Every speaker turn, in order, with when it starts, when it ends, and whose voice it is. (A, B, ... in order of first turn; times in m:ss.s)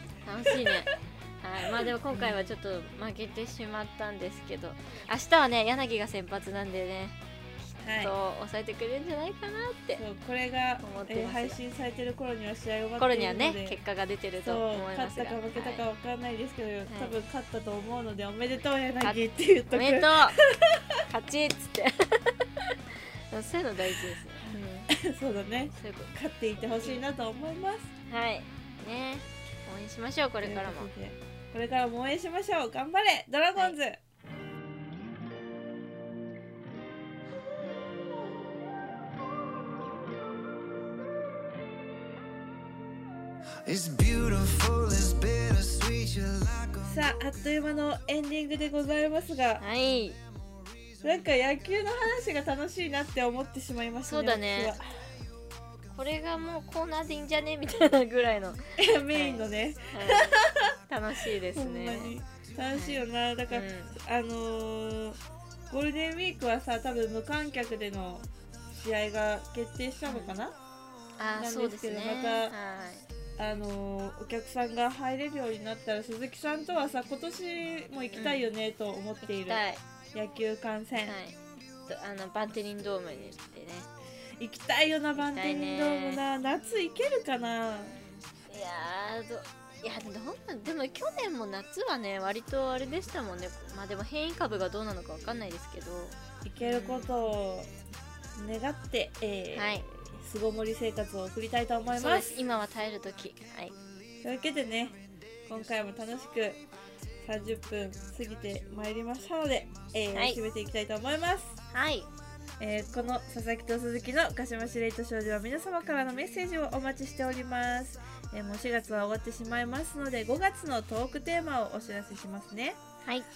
0:00.2-0:10.0 A
0:00.4-0:00.8 B
0:01.6-0:02.4 B
0:07.8-0:08.1 B
0:10.0-0:13.8 B
0:10.8-0:11.6 A
0:13.0-0:15.8 A
0:14.4-0:21.0 B
0:16.9-0:17.2 A
0:19.0-0:20.4 A
0:21.1-0:24.9 A
0:24.5-0:27.9 B
0:25.7-0:26.1 A
0:26.7-0:27.0 A
0:28.1-0:30.9 A
0:30.4-0:34.0 B
0:43.6-0:47.0 C
0:46.8-0:49.6 B
0:49.6-0:50.2 A
0:51.0-0:55.0 B
0:54.0-0:54.8 A
0:55.9-1:02.1 A
0:58.8-1:00.7 B
1:01.2-1:05.2 B
1:02.7-1:04.0 A
1:05.7-1:10.6 B
1:10.0-1:10.3 A
1:11.2-1:13.1 A
1:11.4-1:12.5 B
1:13.4-1:19.6 B
1:18.1-1:18.5 A
1:19.2-1:19.8 A
1:20.1-1:21.2 B
1:21.0-1:23.9 A
1:24.4-1:28.0 B
1:25.1-1:26.2 A
1:28.5-1:37.1 A
1:36.4-1:37.7 B
1:38.4-1:42.4 B
1:39.5-1:39.8 A
1:41.8-1:43.7 A
1:44.2-1:46.6 B
1:47.2-1:51.6 B
1:50.1-1:50.4 A
1:51.7-1:52.1 A
1:52.6-2:02.8 B